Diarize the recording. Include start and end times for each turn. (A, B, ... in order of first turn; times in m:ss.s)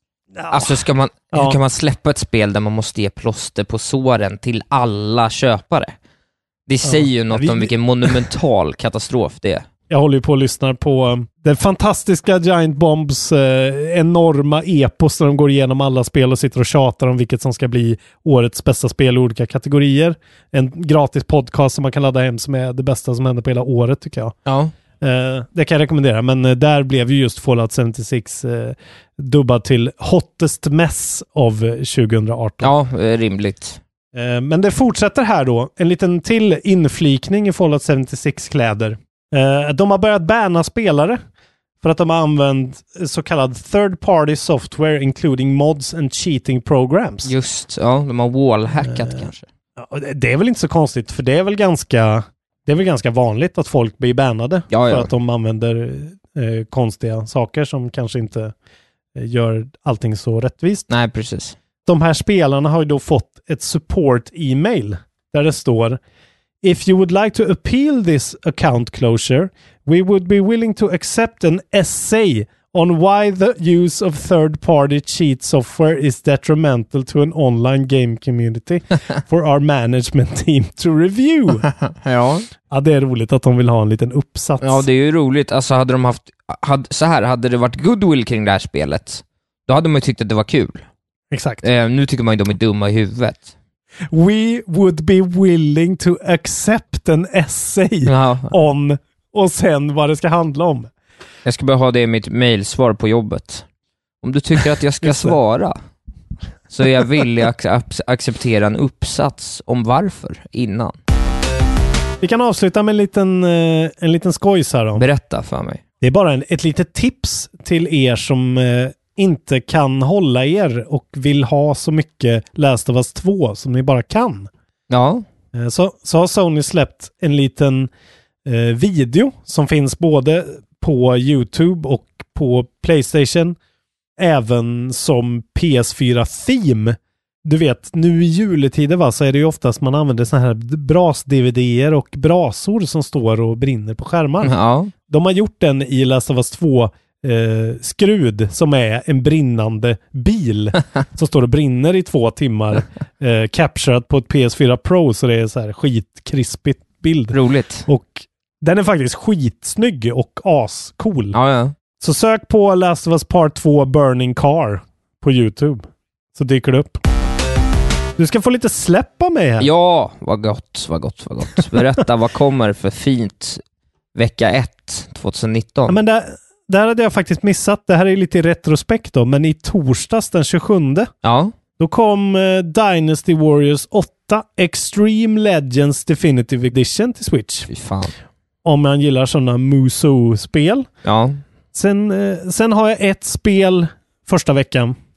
0:00.4-0:00.8 A
0:00.5-0:06.0 B
0:01.3-0:01.6 A
0:06.7-0:09.7 B
0:06.8-0:08.2 A
0:09.9-0:24.4 A
0:24.5-0:24.7 B
0:25.0-0:32.7 A
0:32.6-0:33.8 B
0:34.1-0:41.2 A
0:41.8-0:47.3 A
0:47.2-0:49.5 B
0:48.8-0:49.2 A
0:49.8-0:58.5 A
0:54.7-0:55.1 B
0:59.2-1:00.9 A
1:00.9-1:01.6 B
1:01.8-1:06.0 A
1:06.6-1:21.7 A
1:21.8-1:22.5 B
1:22.7-1:24.8 A
1:24.6-1:30.8 B
1:31.3-1:31.6 A
1:31.6-1:33.5 B
1:34.1-1:40.9 A
1:38.1-1:38.5 B
1:41.4-1:43.6 B
1:44.2-1:45.8 B
1:45.0-1:45.4 A
1:46.7-1:51.0 B
1:52.2-1:55.0 A
1:55.0-1:55.8 B
1:56.0-2:04.5 A
2:04.9-2:05.3 B
2:05.5-2:07.9 A
2:08.5-2:13.6 A
2:14.2-2:24.6 A
2:24.4-2:24.9 B
2:25.1-2:41.4 A
2:37.3-2:37.9 B
2:41.3-2:41.8 B
2:42.0-2:47.0 A
2:48.2-2:49.7 A
2:49.6-2:53.6 B
2:54.2-2:56.0 B
2:55.9-3:01.1 A
3:01.2-3:01.5 B
3:01.8-3:07.7 A
3:07.7-3:08.1 B
3:08.6-3:10.9 A
3:11.0-3:11.4 B
3:11.7-3:15.0 A